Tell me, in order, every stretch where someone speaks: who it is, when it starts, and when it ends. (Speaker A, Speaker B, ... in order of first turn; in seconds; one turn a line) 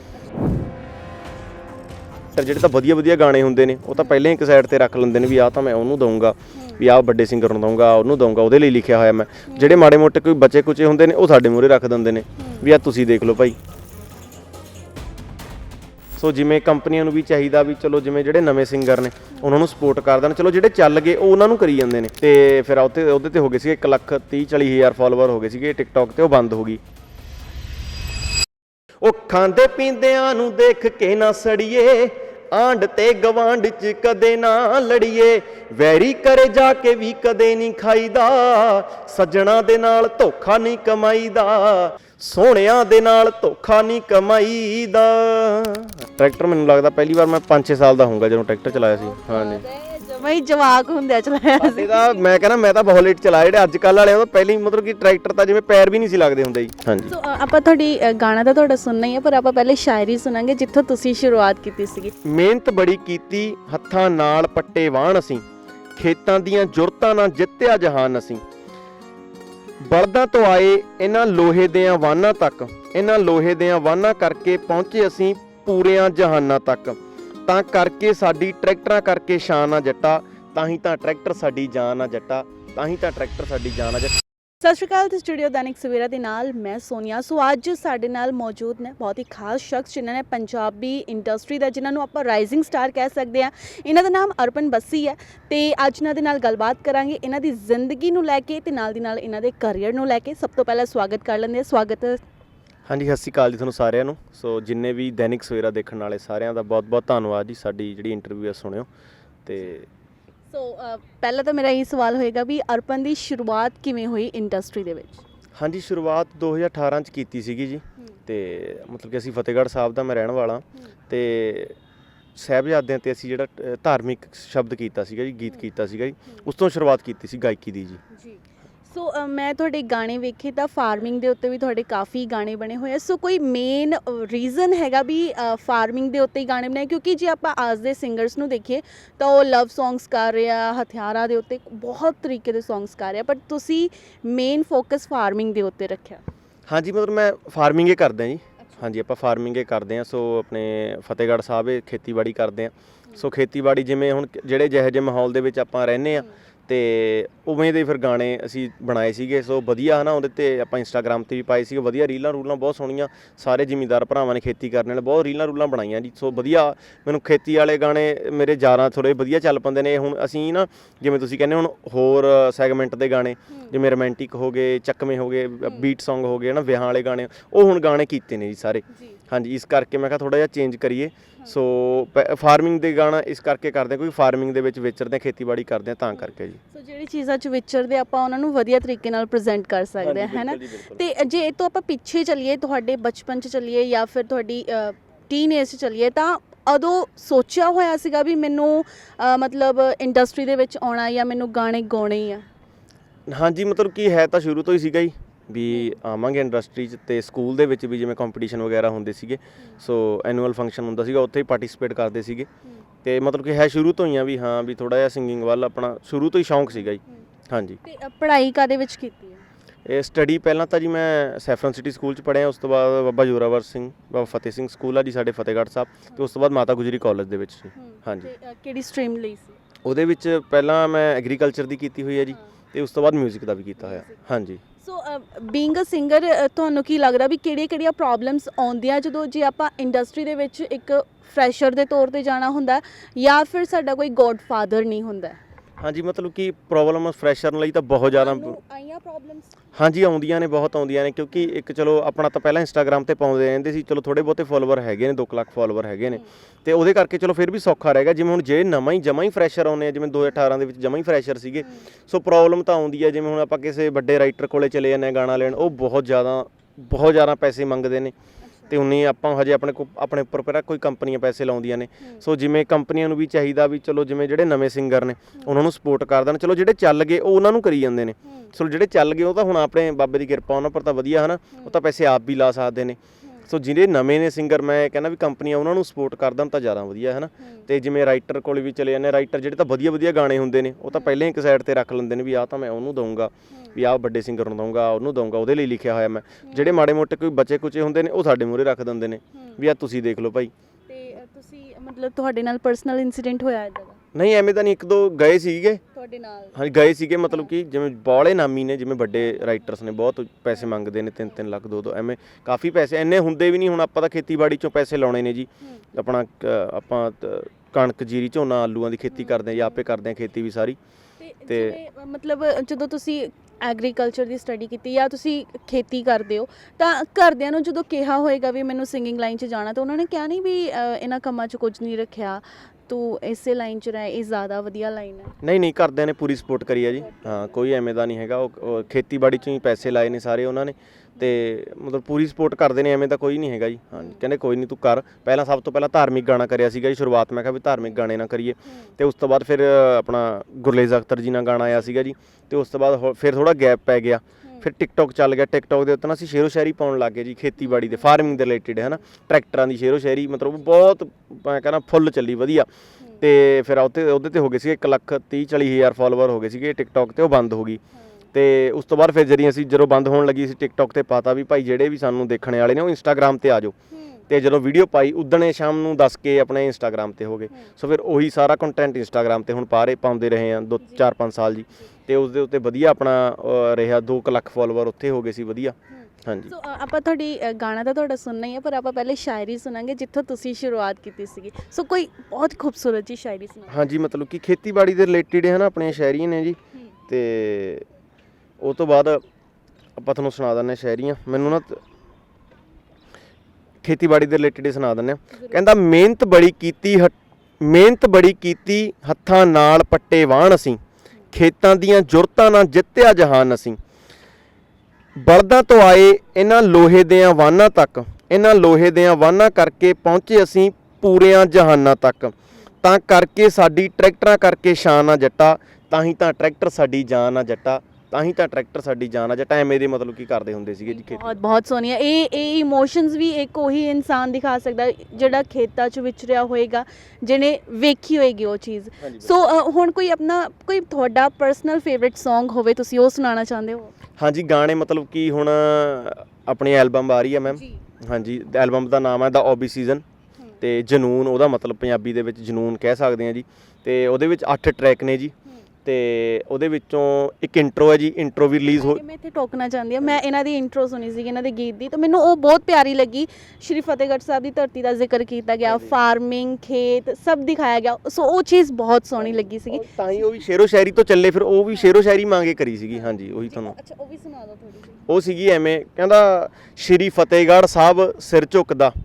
Speaker A: 2.3-13.6
Speaker B: 6.5-6.8
Speaker B: 9.5-9.9
Speaker B: 12.4-12.6
Speaker A: 16.2-26.8
Speaker A: 29.0-49.6
Speaker B: 48.8-52.2
Speaker A: 51.6-57.1
Speaker B: 57.1-62.1
Speaker A: 62.2-65.4
Speaker A: 66.0-68.4
Speaker A: 69.8-84.2
Speaker B: 84.6-102.2
Speaker A: 102.9-108.9
Speaker A: 109.4-109.9
Speaker B: 110.5-115.2
Speaker A: 115.6-121.8
Speaker A: 122.3-128.0
Speaker B: 128.1-146.2
Speaker A: 146.7-186.6
Speaker B: 148.6-148.8
Speaker B: 173.5-173.8
Speaker B: 178.9-179.2
Speaker B: 186.7-202.4
Speaker A: 190.0-191.0
Speaker A: 203.3-212.5
Speaker B: 205.7-205.9
Speaker A: 213.0-217.8
Speaker B: 217.8-219.4
Speaker A: 219.8-228.3
Speaker B: 227.7-229.5
Speaker A: 229.8-234.6
Speaker B: 233.8-234.2
Speaker B: 234.8-245.4
Speaker A: 245.8-248.6
Speaker B: 248.1-249.6
Speaker A: 249.7-268.1
Speaker B: 261.6-261.9
Speaker B: 268.4-268.7
Speaker A: 268.7-300.5
Speaker B: 278.2-278.5
Speaker B: 281.5-281.8
Speaker B: 283.2-283.5
Speaker B: 287.4-287.7
Speaker B: 293.5-293.8
Speaker B: 296.4-296.8
Speaker B: 299.3-299.6
Speaker B: 300.9-304.0
Speaker A: 304.1-305.8
Speaker B: 305.9-306.6
Speaker A: 306.5-320.8
Speaker B: 319.1-319.7
Speaker B: 321.2-335.3
Speaker A: 321.5-321.8
Speaker A: 335.4-362.7
Speaker B: 337.0-337.6
Speaker B: 357.6-358.2
Speaker A: 363.2-367.8
Speaker B: 367.9-368.2
Speaker A: 368.3-373.7
Speaker B: 373.9-374.2
Speaker A: 374.3-386.5
Speaker B: 385.9-393.8
Speaker A: 393.7-397.9
Speaker A: 398.6-399.2
Speaker A: 399.9-401.8
Speaker A: 403.8-410.8
Speaker B: 405.3-405.6
Speaker A: 411.3-413.8
Speaker A: 415.1-431.4
Speaker B: 430.9-443.9
Speaker A: 439.0-439.5
Speaker A: 444.2-450.0
Speaker B: 447.5-447.8
Speaker A: 450.6-455.3
Speaker A: 455.8-459.0
Speaker B: 458.7-470.3
Speaker A: 465.6-465.9
Speaker A: 469.2-473.7
Speaker B: 472.9-475.1
Speaker A: 475.1-478.9